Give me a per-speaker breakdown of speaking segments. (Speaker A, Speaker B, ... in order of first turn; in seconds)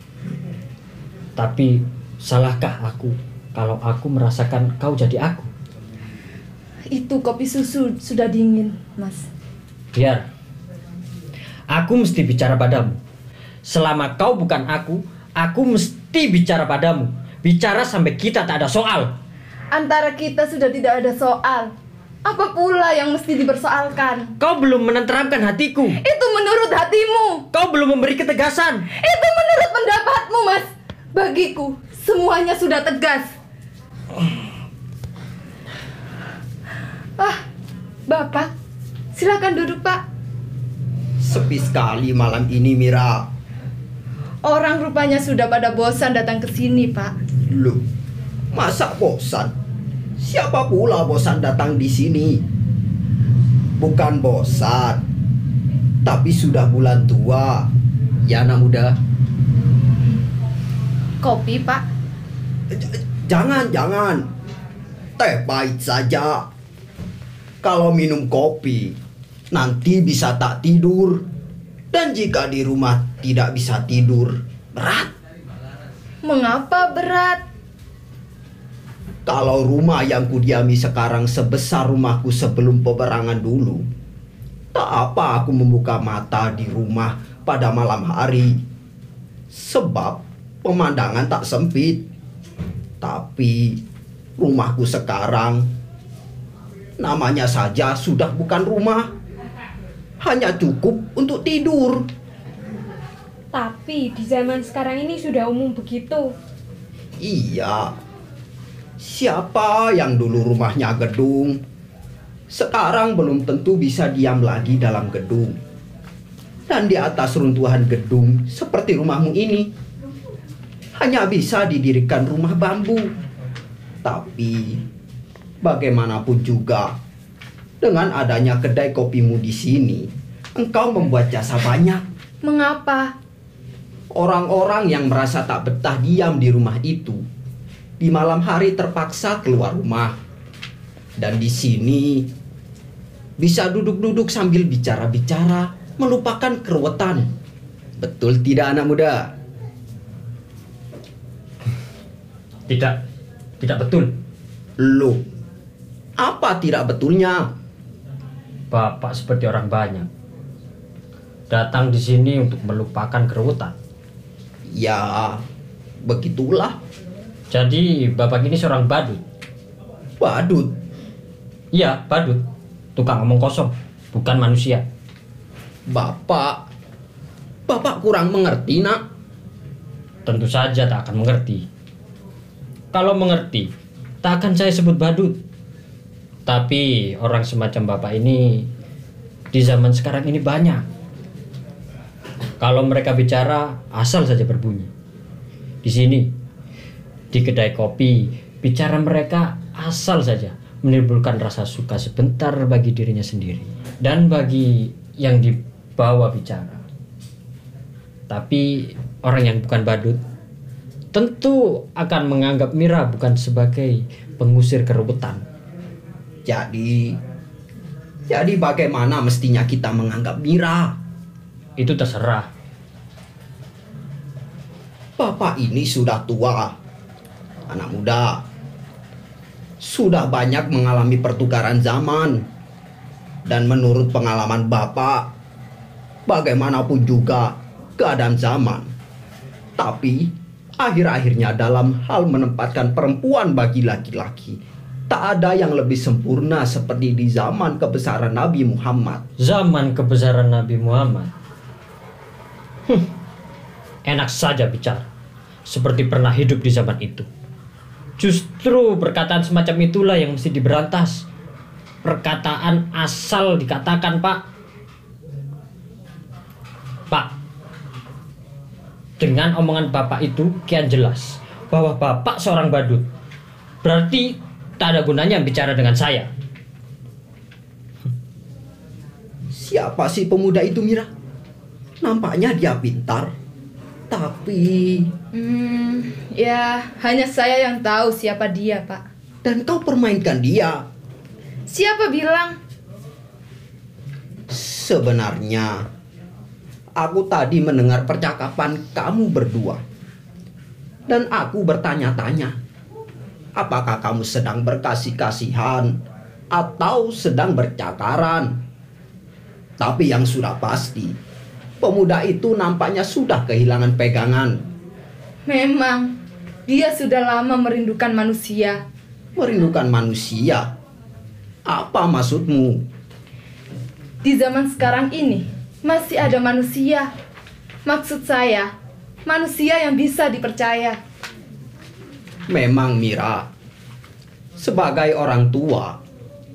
Speaker A: 1.4-5.5, 9.9-10.2, 11.7-13.0, 13.6-19.1, 24.4-26.0, 27.5-28.9, 152.7-153.0, 153.6-154.2, 158.7-160.1, 161.5-163.7, 167.5-169.2, 171.7-172.4, 172.9-174.8, 180.2-181.6, 182.9-183.7, 184.2-185.4, 186.4-188.7, 189.5-190.8, 192.6-194.9, 195.8-196.3, 197.3-206.8, 208.3-210.2, 211.1-215.4, 221.8-222.5, 249.4-251.3, 254.1-255.1, 255.7-257.3, 258.2-261.2, 262.0-264.4, 269.2-273.0, 273.8-276.3
Speaker B: 6.9-9.3, 19.7-21.7, 22.2-24.3, 26.0-27.4, 29.0-33.3, 37.2-37.4, 38.1-38.5, 39.1-40.0, 44.4-47.1, 61.2-61.9, 76.2-77.4, 132.4-133.1, 285.3-289.0, 291.7-292.6, 315.5-316.1, 316.7-318.8, 324.2-327.1, 327.9-328.7, 329.2-331.0
Speaker C: 41.2-43.3, 47.5-47.8, 48.5-49.5, 50.2-52.4, 53.8-55.0, 56.0-57.7, 58.2-58.9, 62.7-64.3, 65.2-66.5, 67.6-69.0, 69.5-71.2, 71.9-75.1, 79.2-83.9, 84.7-88.6, 89.5-92.0, 93.0-93.8, 94.4-95.7, 97.0-99.1, 100.2-102.0, 107.2-107.9, 109.0-111.6, 112.5-115.6, 116.7-119.7, 121.0-123.1, 124.0-124.8, 125.6-127.0, 127.8-132.0, 134.1-137.2, 138.0-140.2, 141.2-142.3, 143.4-147.3, 148.0-149.3, 154.8-155.2, 156.2-157.5, 164.7-165.4, 166.0-166.8, 170.2-170.8, 175.9-176.6, 177.7-179.0, 216.4-217.2, 218.3-221.0, 225.2-226.7, 227.7-228.4, 229.8-232.4, 233.4-235.3, 236.3-238.9, 239.8-249.2, 279.5-281.1, 282.0-283.3, 284.1-285.1, 289.4-290.9, 294.5-295.9, 297.0-299.8, 301.1-302.6, 303.6-305.9, 306.5-308.6, 309.8-311.2, 311.8-314.6, 319.4-320.7, 321.6-322.9, 332.5-333.5, 334.6-336.0
Speaker D: 103.5-106.3